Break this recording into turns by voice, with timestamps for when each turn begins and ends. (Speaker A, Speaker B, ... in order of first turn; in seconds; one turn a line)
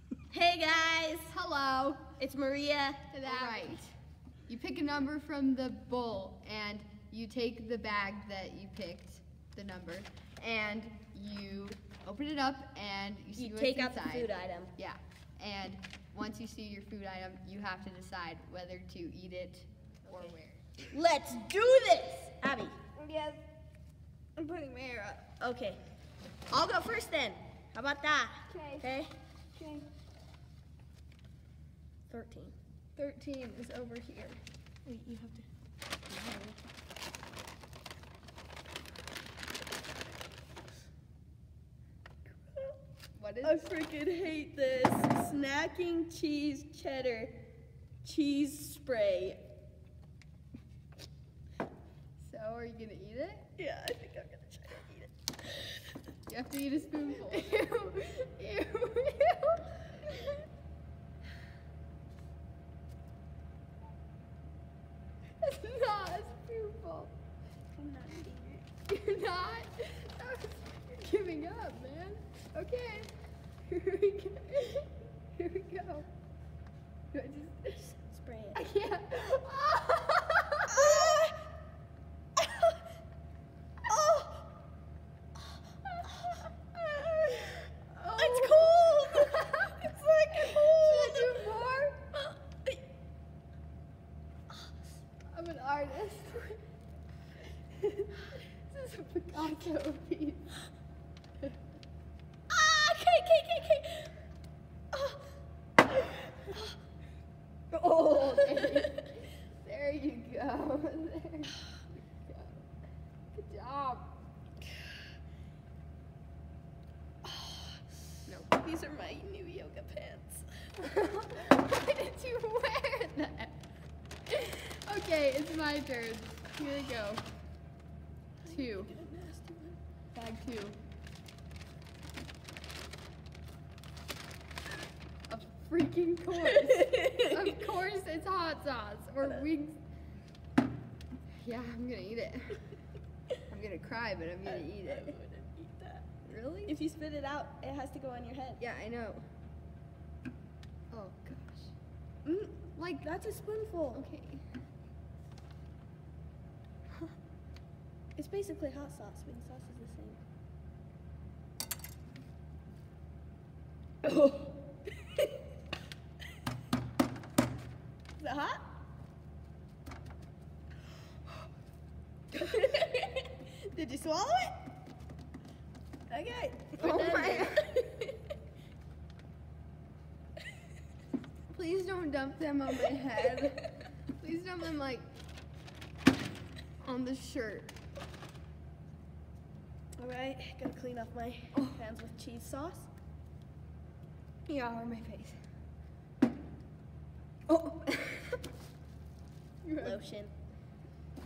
Speaker A: 0.3-1.3
Speaker B: 1.3-2.1
Speaker A: 2.2-3.8
Speaker B: 3.1-3.9
Speaker B: 4.5-20.8
Speaker A: 13.4-14.7
Speaker A: 20.1-20.4
Speaker A: 20.9-22.8
Speaker B: 23.0-23.4
Speaker B: 24.4-25.2
Speaker A: 25.4-25.8
Speaker A: 26.5-29.1
Speaker B: 28.5-28.9
Speaker B: 29.6-29.9
Speaker A: 32.1-32.6
Speaker B: 33.0-34.4
Speaker A: 34.9-35.5
Speaker A: 36.1-36.6
Speaker B: 43.2-43.7
Speaker A: 43.4-47.5
Speaker A: 48.0-49.5
Speaker B: 52.2-53.5
Speaker A: 53.6-55.1
Speaker B: 56.3-60.5
Speaker B: 65.4-67.1
Speaker A: 67.7-68.7
Speaker B: 68.9-73.1
Speaker B: 73.7-76.1
Speaker B: 77.1-77.8
Speaker A: 77.9-78.6
Speaker B: 78.5-81.2
Speaker A: 80.7-81.4
Speaker A: 83.9-84.5
Speaker B: 86.0-86.4
Speaker B: 87.0-92.0
Speaker A: 88.2-91.5
Speaker A: 92.3-92.8
Speaker B: 95.3-96.6
Speaker B: 97.7-100.6
Speaker A: 102.5-104.1
Speaker A: 104.9-105.2
Speaker B: 107.7-112.6
Speaker A: 108.2-109.1
Speaker B: 113.3-114.1
Speaker A: 117.2-120.8
Speaker B: 118.3-118.5
Speaker B: 120.8-123.5
Speaker B: 124.3-127.2
Speaker A: 128.4-129.8
Speaker B: 128.5-128.9
Speaker B: 130.1-130.8
Speaker B: 135.3-139.8
Speaker A: 136.5-137.4
Speaker B: 141.4-142.6
Speaker B: 143.5-145.2
Speaker A: 144.4-146.1
Speaker B: 146.3-146.8
Speaker A: 146.7-148.6
Speaker B: 148.6-149.2
Speaker B: 150.9-151.7
Speaker A: 152.2-154.1
Speaker B: 152.8-153.1
Speaker B: 153.9-154.5
Speaker A: 158.2-160.2
Speaker A: 164.1-164.5
Speaker A: 168.2-168.7
Speaker A: 172.3-174.6
Speaker A: 176.1-178.1
Speaker B: 176.8-177.8
Speaker B: 181.5-185.0
Speaker A: 183.2-183.7
Speaker B: 186.8-187.7
Speaker A: 190.0-192.9
Speaker B: 191.5-191.8
Speaker B: 194.5-195.4
Speaker B: 197.5-198.4
Speaker B: 199.6-200.0
Speaker A: 199.8-200.3